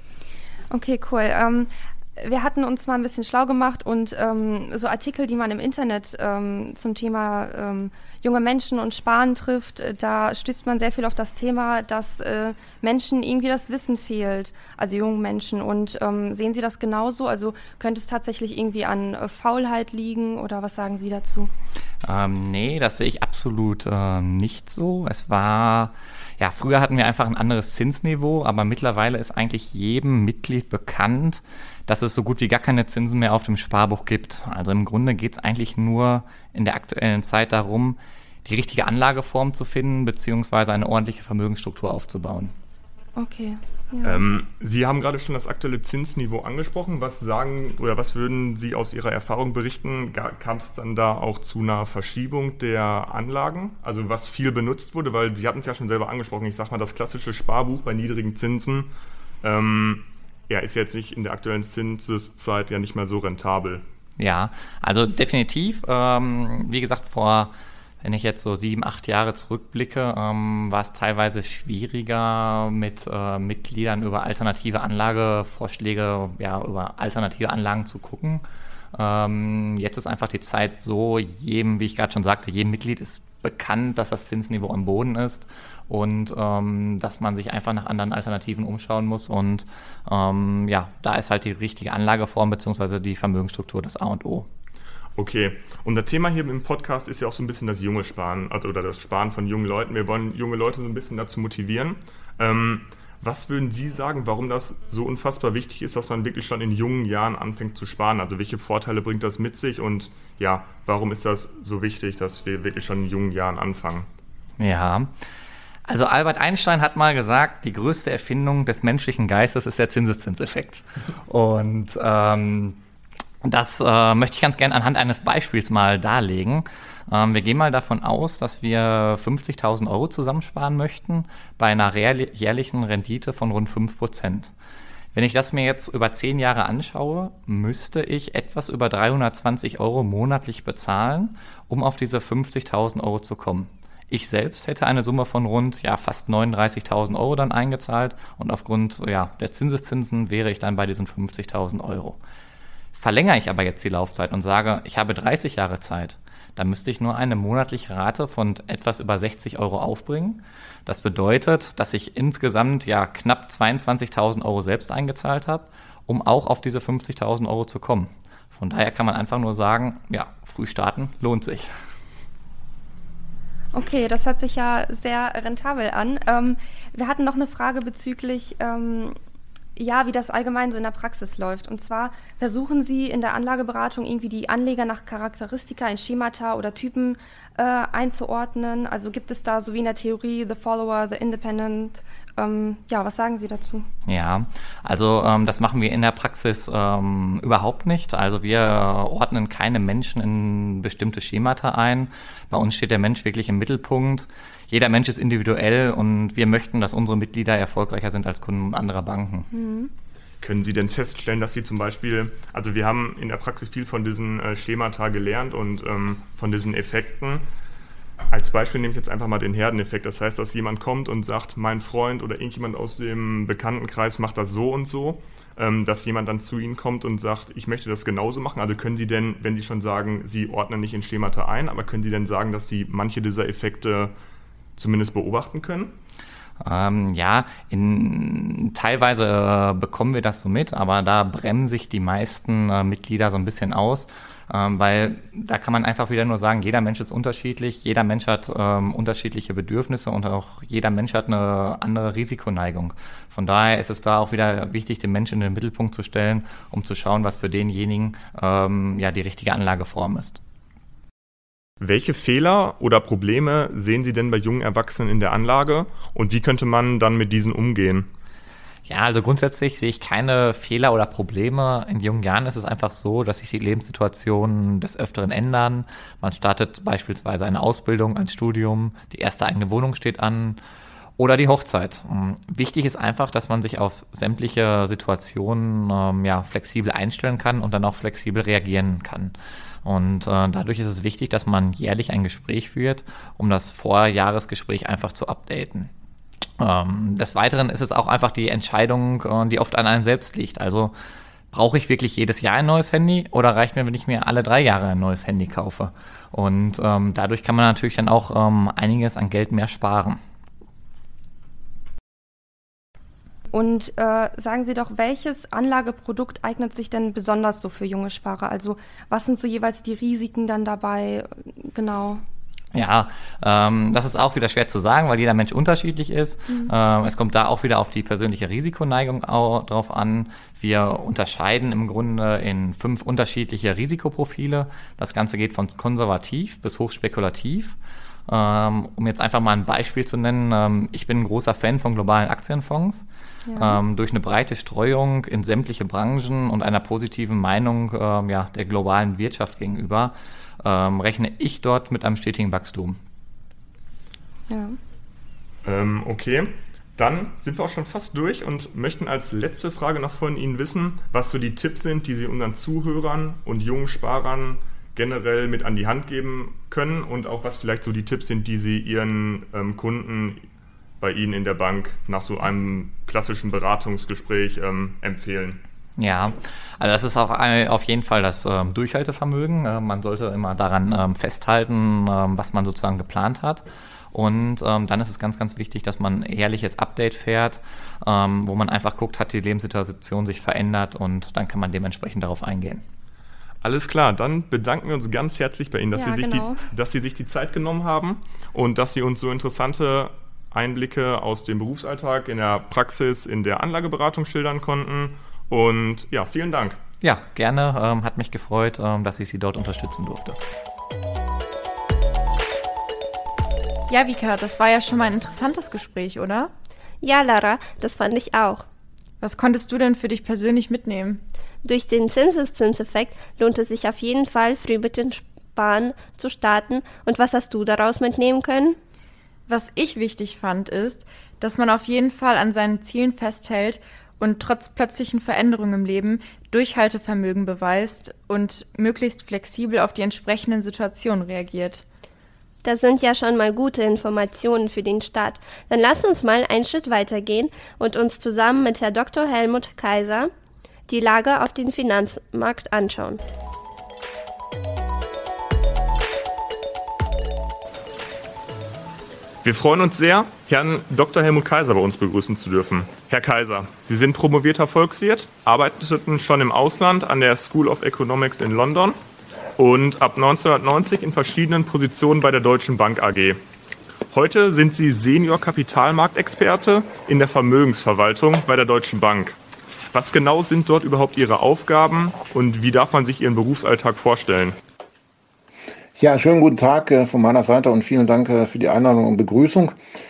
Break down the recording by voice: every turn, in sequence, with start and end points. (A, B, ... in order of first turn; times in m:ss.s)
0:00.7-0:21.5 A
0:22.0-0:42.5 B
0:43.2-0:44.3 A
0:44.0-0:58.9 C
0:59.4-1:03.8 C
1:04.2-1:18.4 B
1:18.9-1:34.5 B
1:35.2-1:54.1 C
1:54.6-1:55.1 B
1:55.9-2:02.8 B
2:03.4-2:14.5 B
2:15.1-2:32.2 B
2:32.9-2:51.7 B
2:53.7-2:59.2 A
2:59.8-3:13.9 A
3:14.1-3:29.5 B
3:29.5-3:29.9 A
3:30.4-3:37.4 C
3:38.3-3:54.1 C
3:54.8-3:55.9 C
3:56.6-4:20.4 B
4:21.8-4:28.1 C
4:28.9-4:40.6 B
4:41.2-4:49.3 B
4:49.8-4:55.9 B
4:56.6-5:00.9 B
5:01.5-5:10.2 B
5:13.5-5:22.2 A
5:22.7-5:43.0 B
5:43.5-5:43.8 A
5:43.6-5:53.0 B
5:54.5-5:54.8 A
5:55.6-6:10.4 C
6:11.0-6:15.6 C
6:16.0-6:32.8 B
6:33.6-6:46.8 C
6:35.9-6:36.7 A
6:47.0-6:50.4 B
6:53.9-6:56.5 D
6:57.0-6:58.6 E
6:59.2-7:01.2 D
7:01.6-7:08.8 E
7:09.5-7:21.8 D
7:22.6-7:30.3 E
7:30.9-7:33.2 E
7:39.4-7:49.0 C
7:49.6-7:53.4 C
7:54.1-7:59.4 C
7:59.9-8:04.6 C
8:06.0-8:09.7 F